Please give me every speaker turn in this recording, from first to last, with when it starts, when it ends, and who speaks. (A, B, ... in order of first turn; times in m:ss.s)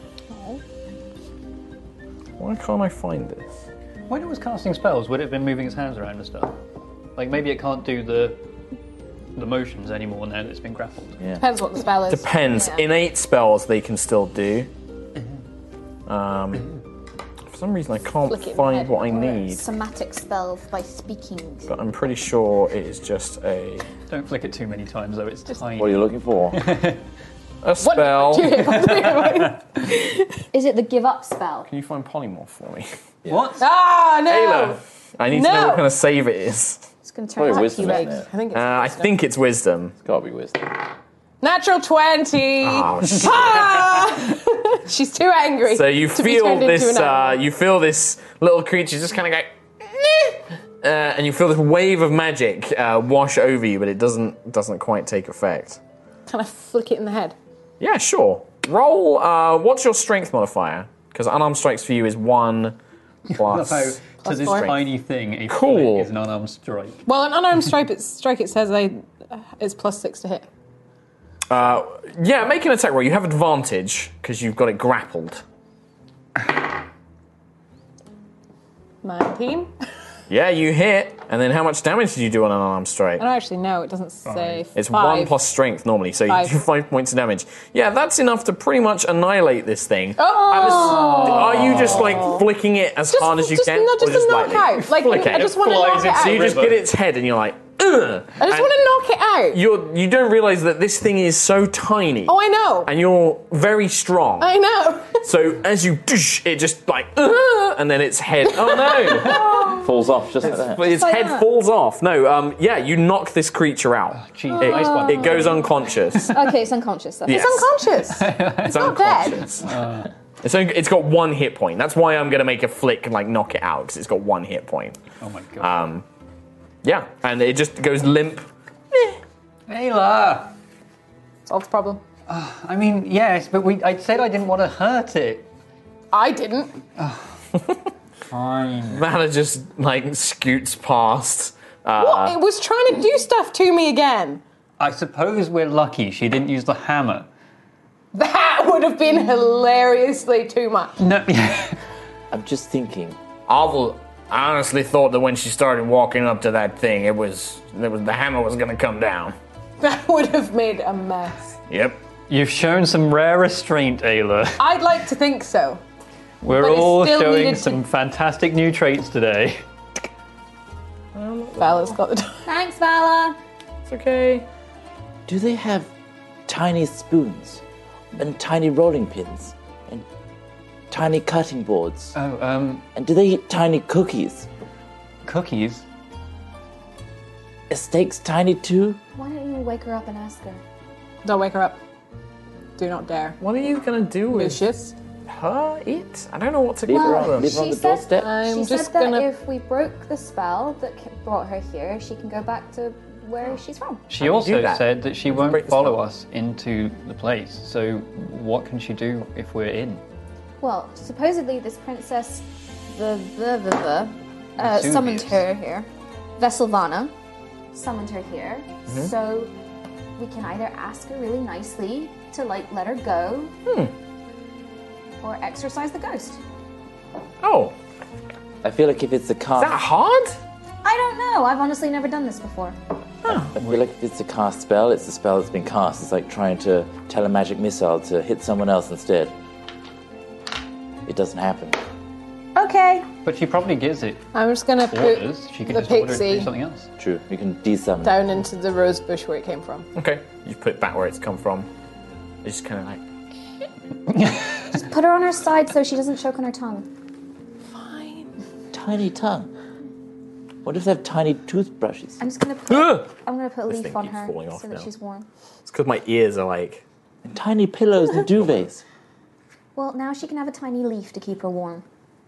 0:02.4-0:03.5 A
0:04.1-0:06.6 B
0:07.2-0:08.4 B
0:09.4-0:11.2 B
0:11.4-0:12.9 C
0:12.1-0:14.7 A
0:16.1-0:16.7 A
0:17.5-0:19.6 A
0:18.3-0:19.5 C
0:19.5-0:21.7 D
0:21.7-0:23.9 A
0:24.1-0:27.0 B
0:25.8-0:26.6 E
0:27.6-0:28.7 A
0:27.8-0:30.3 C
0:28.6-0:29.6 B
0:30.5-0:31.7 D
0:31.7-0:32.9 A
0:33.3-0:33.6 B
0:33.6-0:35.8 C
0:34.3-0:36.8 A
0:37.0-0:38.1 D
0:37.4-0:38.3 E
0:37.5-0:39.1 C
0:38.5-0:40.0 A
0:40.0-0:40.9 E
0:41.4-0:47.4 C
0:42.6-0:44.0 A
0:45.7-0:55.8 A
0:56.3-0:57.4 C
0:57.8-1:02.8 A
1:03.3-1:07.0 B
1:03.3-1:04.8 A
1:04.2-1:04.7 C
1:05.5-1:06.1 A
1:07.1-1:10.5 C
1:11.5-1:15.4 A
1:19.0-1:19.7 C
1:20.3-1:23.2 A
1:23.2-1:25.4 C
1:24.2-1:24.6 B
1:24.8-1:38.7 A
1:26.3-1:26.6 C
1:30.2-1:32.5 C
1:30.6-1:31.4 D
1:31.1-1:32.1 B
1:33.1-1:36.6 C
1:35.3-1:36.8 B
1:38.4-1:39.6 C
1:39.5-1:44.5 A
1:42.3-1:42.9 C
1:44.4-1:45.2 C
1:45.2-1:49.7 A
1:48.6-1:49.4 C
1:49.4-1:49.9 D
1:49.6-1:50.9 E
1:50.5-1:56.5 A
1:50.9-1:51.4 D
1:54.1-1:55.6 B
1:54.5-1:57.6 D
1:57.3-1:57.7 A
1:57.3-1:59.4 C
1:58.1-1:58.9 B
1:58.6-1:59.7 A
1:59.6-2:00.1 B
2:00.4-2:05.0 A
2:05.2-2:05.7 B
2:05.6-2:06.0 A
2:06.8-2:09.2 A
2:09.7-2:10.6 B
2:11.5-2:12.0 C
2:12.3-2:15.5 B
2:16.1-2:16.8 C
2:17.0-2:17.3 B
2:18.3-2:19.0 B
2:18.9-2:22.4 A
2:22.0-2:24.4 C
2:24.8-2:27.3 B
2:28.1-2:31.0 C
2:31.0-2:31.8 B
2:32.3-2:33.2 E
2:33.5-2:39.4 A
2:39.8-2:41.6 C
2:41.7-2:42.0 A
2:42.3-2:44.6 B
2:44.6-2:45.8 C
2:46.4-2:49.6 B
2:46.5-2:47.8 C
2:51.1-2:51.9 A
2:51.6-2:52.5 C
2:52.4-2:53.4 D
2:53.9-2:54.5 A
2:55.3-2:55.9 E
2:56.5-2:57.6 E
2:58.1-3:00.1 E
3:00.9-3:02.1 E
3:02.1-3:02.8 B
3:03.0-3:04.5 E
3:05.2-3:05.8 B
3:07.7-3:09.0 E
3:09.2-3:10.6 D
3:11.2-3:11.8 C
3:12.8-3:13.4 C
3:13.4-3:14.6 A
3:14.3-3:15.0 C
3:15.3-3:17.6 A
3:16.9-3:18.3 E
3:16.9-3:24.1 D
3:18.2-3:19.3 C
3:24.1-3:30.0 B
3:24.2-3:26.0 A
3:30.6-3:37.1 D
3:34.6-3:35.4 B
3:37.7-3:39.5 D
3:40.2-3:43.5 D
3:43.6-3:43.9 A
3:45.2-3:46.4 D
3:47.4-3:47.8 A
3:48.6-3:49.8 E
3:49.6-3:50.4 A
3:50.8-3:52.8 D
3:53.2-3:53.5 A
3:53.5-3:59.3 E
3:53.6-3:53.8 B
4:01.1-4:01.8 E
4:02.6-4:03.1 D
4:03.2-4:04.2 B
4:04.3-4:06.5 C
4:04.9-4:06.9 B
4:07.0-4:08.3 E
4:08.0-4:09.9 C
4:10.0-4:11.7 A
4:12.4-4:13.0 A
4:14.1-4:14.8 B
4:14.7-4:16.9 D
4:17.7-4:18.3 C
4:18.7-4:19.5 E
4:20.6-4:22.2 E
4:22.2-4:25.2 D
4:22.7-4:23.1 A
4:23.7-4:24.9 A
4:25.6-4:26.8 A
4:27.2-4:28.8 E
4:29.8-4:31.8 D